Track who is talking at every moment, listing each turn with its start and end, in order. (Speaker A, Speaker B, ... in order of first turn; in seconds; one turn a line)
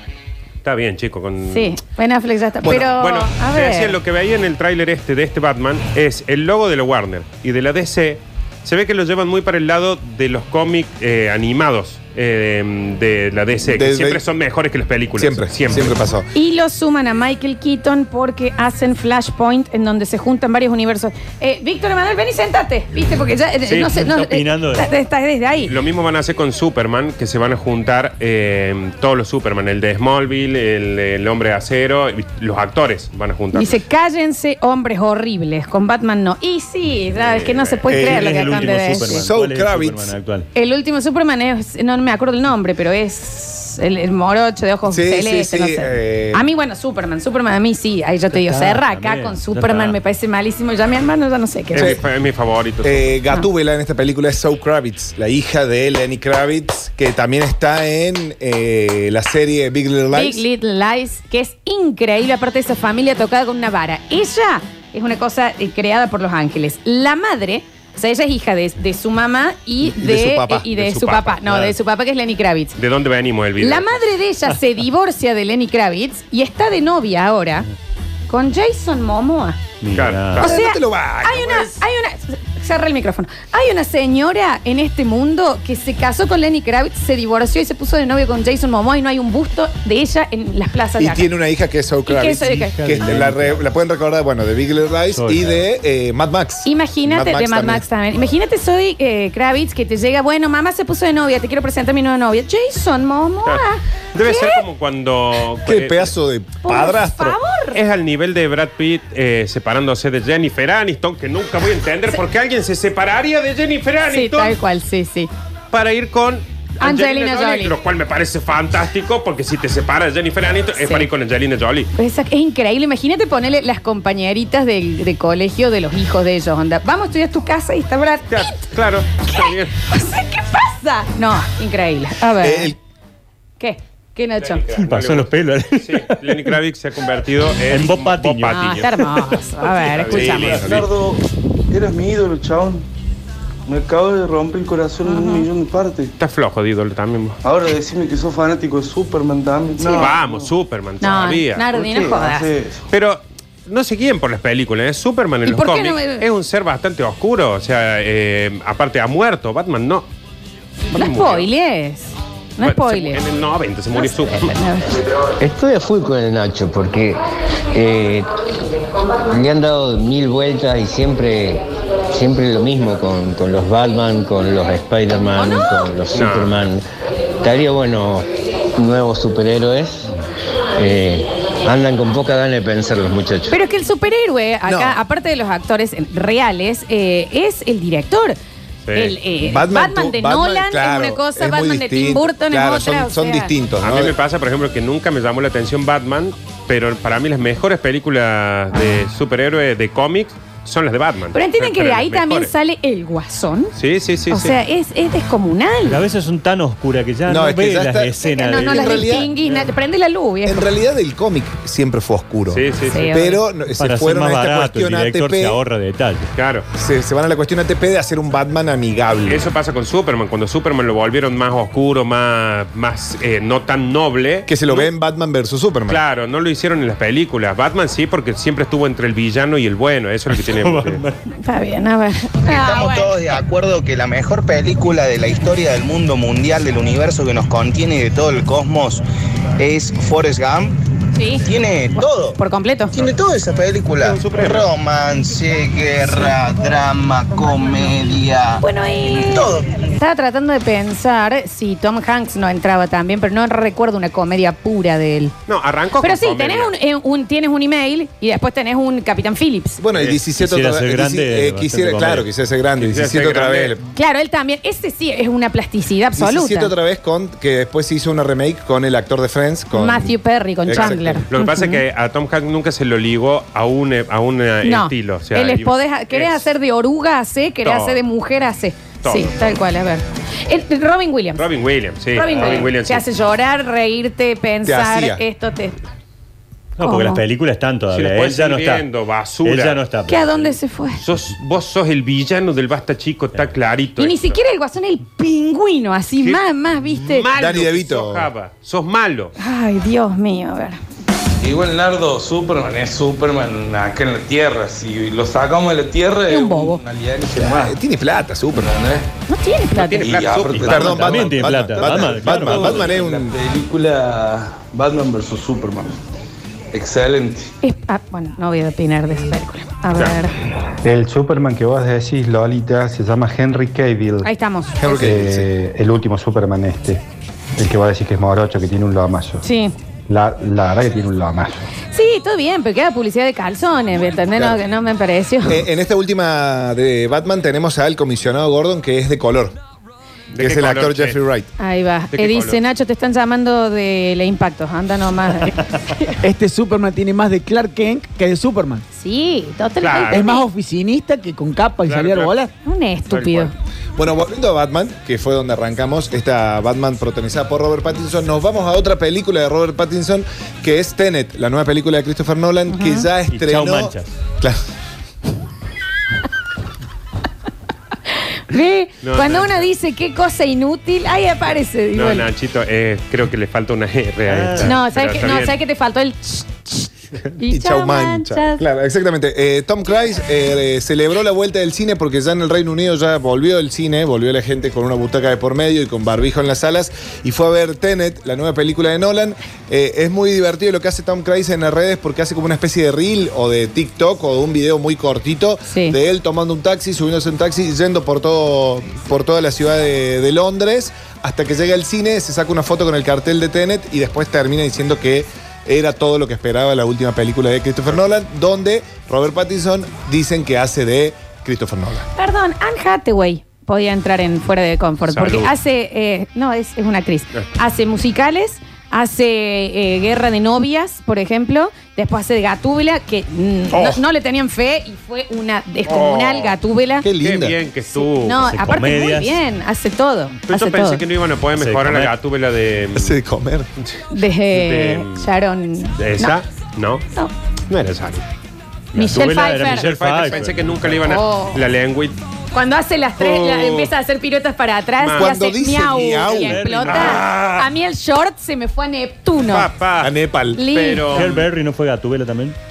Speaker A: 0.6-1.8
Speaker B: 1.5-4.0
Speaker A: 2.6-15.9
Speaker C: 13.6-14.2
Speaker C: 15.2-16.3
Speaker B: 16.3-25.8
Speaker D: 23.8-24.9
Speaker A: 25.7-33.8
Speaker B: 33.5-39.2
Speaker A: 37.3-37.8
Speaker C: 37.9-40.1
Speaker D: 37.9-40.5
Speaker B: 40.5-51.9
Speaker C: 44.9-46.4
Speaker D: 48.3-50.0
Speaker A: 51.7-53.1
Speaker C: 51.8-52.0
Speaker C: 52.8-60.5
Speaker B: 60.1-72.8
Speaker C: 69.8-70.7
Speaker A: 70.7-71.6
Speaker A: 72.8-74.0
Speaker B: 73.6-77.7
Speaker B: 78.3-79.6
Speaker D: 79.8-80.5
Speaker A: 79.9-80.6
Speaker C: 80.4-81.8
Speaker B: 80.4-91.3
Speaker C: 91.0-97.8
Speaker B: 92.1-92.8
Speaker D: 92.6-93.6
Speaker D: 95.1-95.6
Speaker B: 96.6-104.6
Speaker A: 104.1-106.1
Speaker C: 105.7-107.4
Speaker B: 106.6-107.8
Speaker A: 107.7-114.6
Speaker B: 114.1-115.3
Speaker A: 115.7-121.9
Speaker B: 116.8-117.7
Speaker B: 122.0-128.7
Speaker A: 128.3-129.7
Speaker B: 129.3-132.8
Speaker C: 132.4-132.8
Speaker B: 133.6-134.6
Speaker A: 134.4-138.9
Speaker D: 134.7-136.6
Speaker D: 137.7-139.3
Speaker B: 138.5-140.7
Speaker A: 139.9-140.7
Speaker C: 140.1-140.9
Speaker E: 140.6-142.9
Speaker E: 143.7-146.1
Speaker B: 145.0-145.5
Speaker A: 146.2-147.4
Speaker E: 147.4-150.5
Speaker B: 149.8-150.2
Speaker A: 149.9-151.7
Speaker B: 151.0-152.5
Speaker E: 151.7-152.9
Speaker A: 152.9-160.1
Speaker B: 155.5-156.2
Speaker A: 160.9-161.5
Speaker B: 160.9-163.2
Speaker A: 162.6-164.6
Speaker B: 163.9-165.0
Speaker F: 165.4-167.2
Speaker F: 167.7-168.3
Speaker F: 169.3-176.8
Speaker B: 175.4-175.7
Speaker A: 176.1-176.6
Speaker F: 177.4-180.1
Speaker F: 180.8-183.5
Speaker B: 183.5-188.4
Speaker C: 184.7-185.0
Speaker A: 188.8-189.1
Speaker B: 188.9-193.5
Speaker C: 189.4-194.1
Speaker A: 193.8-202.5
Speaker B: 201.3-203.8
Speaker A: 203.8-204.6
Speaker B: 204.3-206.0
Speaker D: 205.9-209.7
Speaker C: 207.3-209.3
Speaker B: 208.3-210.7
Speaker C: 210.5-215.6
Speaker A: 212.5-213.0
Speaker B: 212.9-213.4
Speaker D: 213.8-216.3
Speaker A: 216.4-216.7
Speaker C: 216.8-219.4
Speaker A: 219.3-224.9
Speaker C: 224.5-226.0
Speaker A: 225.9-231.0
Speaker D: 230.3-231.2
Speaker B: 231.4-233.2
Speaker G: 232.5-239.0
Speaker G: 239.6-240.7
Speaker B: 241.1-241.4
Speaker G: 241.4-242.4
Speaker B: 242.3-243.0
Speaker G: 242.9-248.6
Speaker A: 244.0-244.7
Speaker B: 248.6-255.3
Speaker G: 249.2-249.7
Speaker A: 255.5-256.7
Speaker B: 256.0-259.8
Speaker C: 259.8-263.8
Speaker D: 260.3-262.3
Speaker A: 262.8-263.8
Speaker B: 263.9-266.7
Speaker C: 266.2-271.2
Speaker B: 269.7-271.8
Speaker A: 270.7-276.5
Speaker B: 274.6-281.4
Speaker A: 277.6-278.0
Speaker A: 279.0-279.4
Speaker A: 281.4-283.1
Speaker B: 282.1-285.8
Speaker C: 284.6-285.2
Speaker D: 286.8-288.9
Speaker B: 286.8-287.2
Speaker A: 287.9-289.8
Speaker D: 289.4-290.5
Speaker B: 290.1-291.0
Speaker A: 291.0-294.4
Speaker B: 294.0-297.3
Speaker A: 296.2-299.3
Speaker C: 297.3-298.3
Speaker B: 299.4-300.8
Speaker E: 301.4-307.8
Speaker B: 306.3-306.8
Speaker C: 307.3-308.7
Speaker E: 308.5-309.1
Speaker B: 309.3-310.2
Speaker A: 309.7-311.1
Speaker E: 310.0-311.4
Speaker C: 310.5-313.4
Speaker D: 310.8-312.8
Speaker E: 311.9-316.0
Speaker E: 316.7-317.5
Speaker B: 317.6-320.4
Speaker H: 320.8-324.3
Speaker B: 324.2-325.1
Speaker C: 324.8-325.5
Speaker H: 325.0-327.0
Speaker H: 327.6-329.4
Speaker B: 329.4-329.7
Speaker H: 330.1-331.6
Speaker B: 331.9-335.6
Speaker C: 334.4-334.6
Speaker C: 335.4-339.6
Speaker A: 340.3-341.2
Speaker C: 340.4-341.5
Speaker B: 341.6-346.1
Speaker A: 342.1-342.6
Speaker I: 346.2-348.9
Speaker B: 348.9-350.4
Speaker A: 349.8-350.3
Speaker I: 350.1-352.5
Speaker A: 351.9-352.3
Speaker B: 352.6-353.5
Speaker A: 353.1-353.5
Speaker C: 354.0-364.6
Speaker B: 362.7-363.1
Speaker D: 363.3-364.1
Speaker B: 368.1-372.3
Speaker A: 369.0-369.7
Speaker A: 371.9-375.6
Speaker D: 374.3-374.8
Speaker B: 374.6-378.6
Speaker C: 377.5-412.1
Speaker B: 395.7-395.9
Speaker B: 412.2-427.1
Speaker A: 415.1-415.5
Speaker A: 425.9-426.6
Speaker C: 427.0-427.6
Speaker A: 427.2-428.5
Speaker B: 427.9-431.0
Speaker D: 428.4-429.4
Speaker A: 430.5-433.1
Speaker D: 431.6-432.1
Speaker C: 432.9-433.7
Speaker B: 434.1-436.4
Speaker A: 434.5-435.3
Speaker A: 436.0-437.1
Speaker A: 437.7-438.2
Speaker D: 438.9-441.1
Speaker B: 438.9-440.2
Speaker A: 439.7-442.2
Speaker B: 441.0-441.6
Speaker B: 442.5-449.7
Speaker A: 443.2-443.9
Speaker A: 445.0-445.4
Speaker C: 445.2-446.6
Speaker D: 446.3-447.5
Speaker A: 446.9-447.6
Speaker A: 449.4-451.4
Speaker C: 450.0-450.6
Speaker B: 450.5-451.3
Speaker D: 451.1-452.6